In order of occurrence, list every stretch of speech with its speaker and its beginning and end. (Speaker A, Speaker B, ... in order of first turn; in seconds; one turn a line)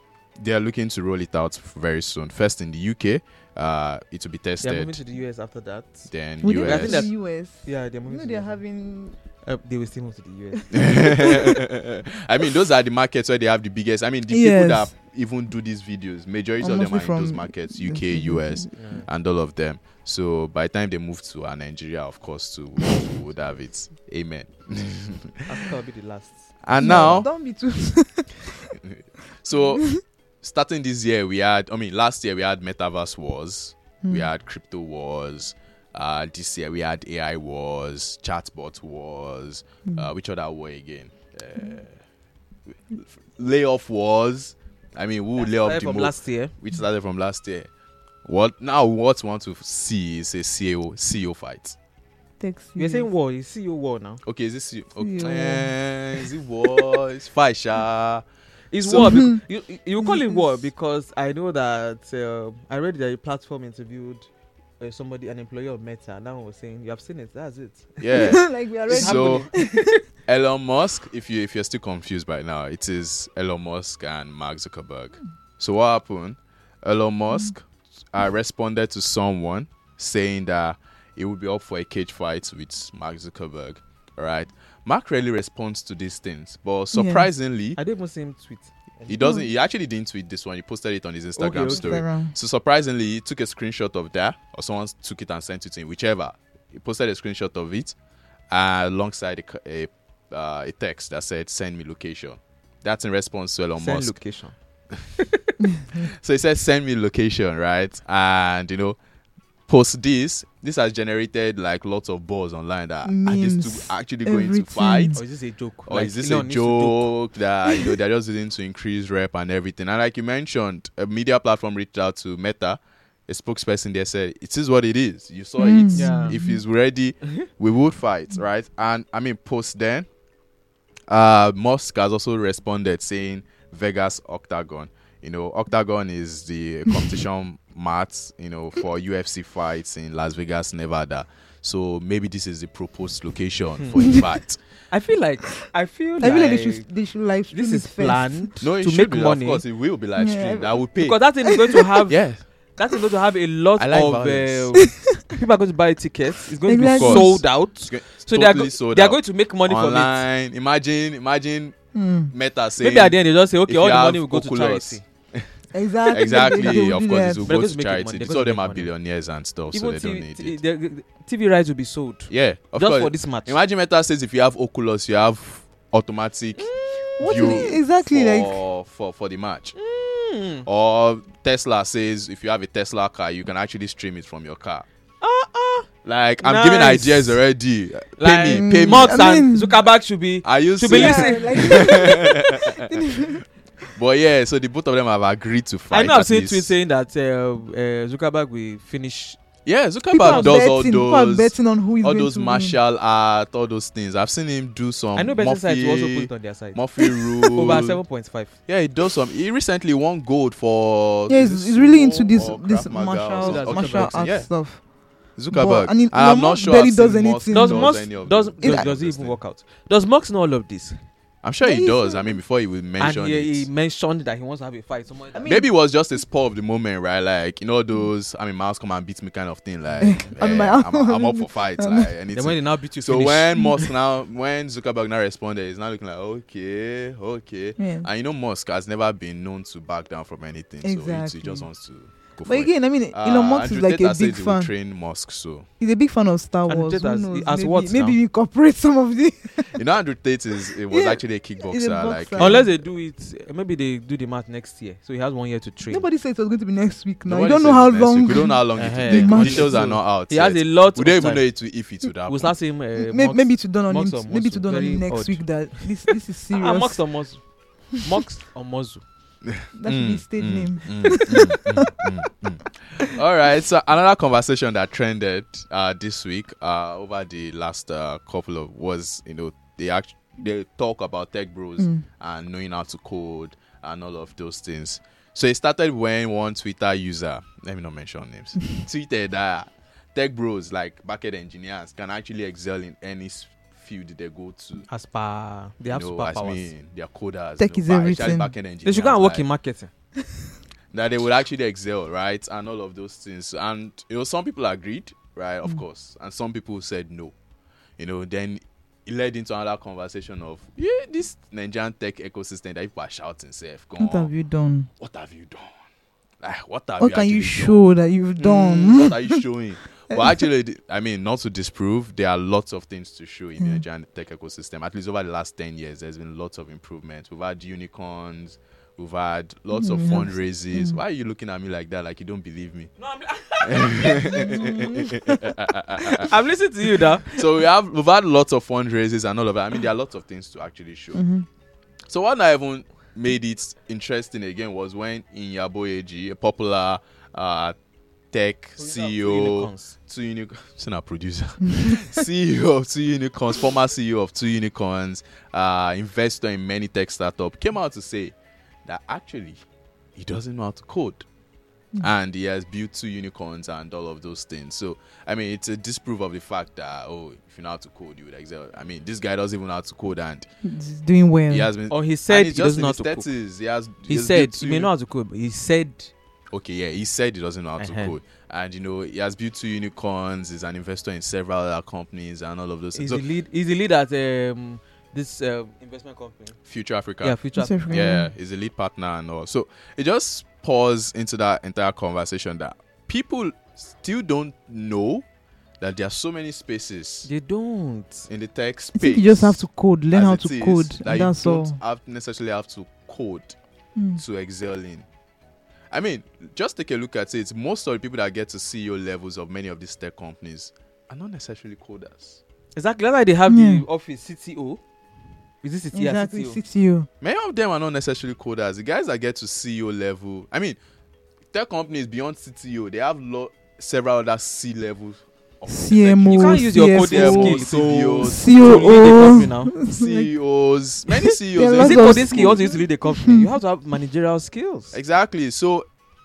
Speaker A: 0.4-5.0
Speaker B: 4.6-8.6
Speaker A: 6.1-7.1
Speaker C: 6.4-9.2
Speaker B: 9.4-11.3
Speaker A: 10.7-25.6
Speaker C: 10.8-11.6
Speaker C: 14.3-14.9
Speaker C: 16.6-18.7
Speaker B: 18.8-19.1
Speaker B: 25.5-27.1
Speaker A: 26.6-27.3
Speaker C: 26.8-28.8
Speaker A: 28.8-42.0
Speaker A: 42.9-47.7
Speaker B: 45.4-46.5
Speaker A: 48.2-51.8
Speaker C: 52.4-53.1
Speaker B: 52.8-54.2
Speaker A: 54.2-58.2
Speaker C: 55.0-55.8
Speaker B: 58.7-64.3
Speaker A: 58.8-59.2
Speaker C: 59.0-59.4
Speaker C: 60.0-60.5
Speaker B: 64.8-70.0
Speaker A: 68.0-69.5
Speaker C: 68.1-69.9
Speaker A: 70.3-87.8
Speaker C: 86.9-87.3
Speaker B: 87.8-89.4
Speaker A: 89.1-98.0
Speaker B: 91.4-92.0
Speaker C: 91.7-92.3
Speaker A: 98.5-104.2
Speaker B: 103.8-104.6
Speaker C: 105.7-106.0
Speaker A: 106.0-109.0
Speaker A: 109.7-115.2
Speaker C: 113.0-115.2
Speaker B: 115.1-117.1
Speaker A: 115.9-130.1
Speaker C: 125.6-126.6
Speaker B: 125.9-126.4
Speaker A: 131.1-144.6
Speaker B: 143.8-144.1
Speaker C: 144.0-144.2
Speaker B: 144.9-146.9
Speaker C: 146.2-148.5
Speaker B: 147.5-149.6
Speaker A: 148.6-151.2
Speaker C: 150.2-150.8
Speaker B: 151.0-152.2
Speaker C: 151.4-151.9
Speaker A: 152.1-152.4
Speaker B: 152.8-160.2
Speaker A: 153.8-154.8
Speaker C: 154.9-155.2
Speaker C: 156.7-157.4
Speaker A: 156.9-161.8
Speaker C: 161.9-162.3
Speaker A: 162.3-165.5
Speaker B: 162.8-165.0
Speaker C: 165.7-167.5
Speaker A: 166.1-170.6
Speaker B: 166.4-166.9
Speaker B: 167.4-168.9
Speaker B: 169.7-173.6
Speaker A: 172.3-176.7
Speaker B: 176.6-177.2
Speaker C: 177.2-178.6
Speaker A: 177.2-179.8
Speaker B: 179.8-180.7
Speaker A: 180.7-184.9
Speaker B: 185.2-185.9
Speaker A: 186.1-189.3
Speaker B: 186.4-187.4
Speaker B: 188.2-192.2
Speaker C: 188.5-189.8
Speaker A: 190.4-193.4
Speaker C: 190.9-193.4
Speaker A: 193.9-196.7
Speaker B: 195.9-199.4
Speaker A: 199.7-208.0
Speaker C: 200.1-202.8
Speaker B: 200.2-200.6
Speaker B: 205.2-206.9
Speaker B: 207.5-208.6
Speaker A: 208.7-214.6
Speaker C: 211.3-214.8
Speaker B: 213.4-214.3
Speaker C: 215.4-218.1
Speaker A: 215.4-219.4
Speaker B: 217.5-221.0
Speaker A: 221.4-223.7
Speaker C: 221.6-222.4
Speaker B: 223.0-225.5
Speaker C: 225.3-225.7
Speaker A: 225.5-245.7
Speaker C: 230.0-232.1
Speaker B: 232.3-233.9
Speaker C: 237.8-238.1
Speaker C: 240.8-241.7
Speaker C: 242.4-244.7
Speaker C: 245.8-249.8
Speaker B: 246.7-248.2
Speaker A: 249.7-252.7
Speaker C: 250.7-252.7
Speaker B: 252.4-256.1
Speaker C: 255.9-259.9
Speaker A: 257.3-262.5
Speaker B: 258.8-261.5
Speaker B: 262.3-269.0
Speaker C: 263.0-267.0
Speaker A: 269.4-294.9
Speaker C: 269.8-272.1
Speaker B: 294.9-296.7
Speaker A: 295.9-299.5
Speaker C: 297.6-298.5
Speaker B: 298.8-299.9
Speaker A: 300.9-307.4
Speaker A: 308.0-314.3
Speaker C: 314.0-314.9
Speaker A: 315.0-315.9
Speaker A: 316.4-317.8
Speaker C: 317.0-319.4
Speaker A: 318.4-332.9
Speaker C: 320.1-320.4
Speaker C: 329.7-331.0
Speaker B: 333.0-335.0
Speaker A: 333.6-336.4
Speaker C: 334.2-335.3
Speaker B: 336.1-337.4
Speaker A: 337.3-341.2
Speaker C: 341.1-341.5
Speaker A: 342.1-347.8
Speaker A: 348.3-359.6
Speaker B: 348.8-350.0
Speaker A: 360.1-361.2
Speaker A: 362.0-370.5
Speaker C: 370.6-371.7
Speaker A: 371.5-374.9
Speaker B: 371.9-373.3
Speaker B: 374.1-376.1
Speaker A: 376.5-383.2
Speaker B: 377.8-378.2
Speaker B: 382.9-386.6
Speaker A: 386.6-395.2
Speaker B: 387.2-388.1
Speaker C: 387.6-388.3
Speaker A: 395.8-397.3
Speaker B: 397.2-398.3
Speaker A: 398.3-403.6
Speaker C: 399.0-401.8
Speaker C: 404.0-404.2
Speaker A: 404.2-405.1
Speaker A: 405.9-412.4
Speaker B: 412.8-414.8
Speaker C: 413.5-413.9
Speaker B: 415.6-416.6
Speaker C: 415.9-417.1
Speaker A: 417.2-420.8
Speaker A: 421.5-429.3
Speaker C: 425.7-430.3
Speaker B: 426.3-429.7
Speaker A: 429.9-432.7
Speaker C: 431.1-433.5
Speaker B: 431.8-435.0
Speaker A: 434.9-435.9